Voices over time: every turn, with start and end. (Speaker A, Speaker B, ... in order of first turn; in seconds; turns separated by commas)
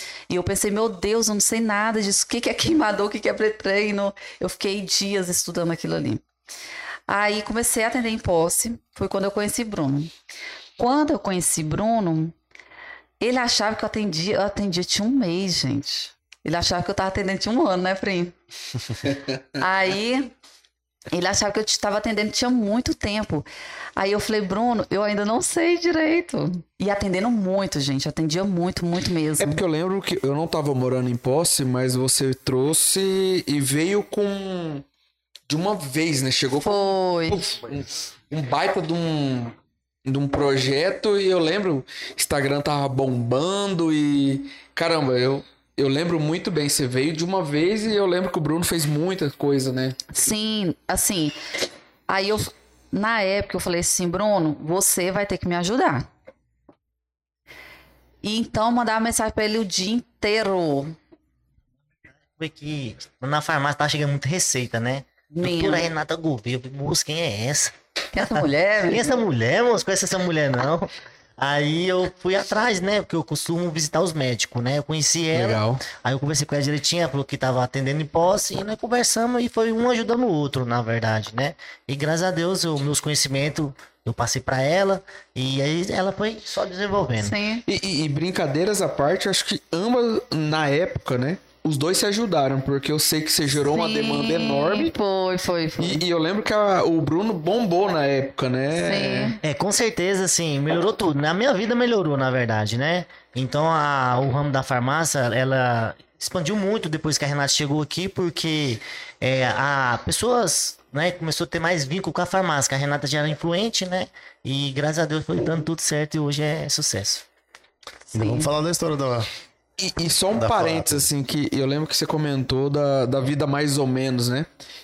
Speaker A: 0.3-6.2, Speaker A: 7.1-10.1, Speaker A: 10.8-12.4, Speaker A: 13.2-18.4, Speaker A: 19.6-20.3, Speaker A: 21.1-29.6, Speaker B: 29.4-34.8, Speaker B: 35.5-50.0, Speaker A: 36.6-37.4, Speaker A: 50.1-51.4, Speaker A: 52.1-56.1, Speaker A: 58.2-61.0, Speaker C: 62.3-67.7, Speaker A: 65.3-65.9, Speaker A: 68.1-69.2, Speaker C: 68.9-87.4, Speaker B: 75.3-75.8, Speaker A: 87.2-87.6, Speaker B: 87.7-94.9, Speaker A: 93.7-96.0, Speaker B: 95.8-99.3, Speaker A: 98.7-99.4, Speaker C: 99.4-117.2, Speaker D: 118.1-119.3, Speaker A: 118.1-118.5, Speaker B: 119.8-124.5, Speaker D: 120.3-121.1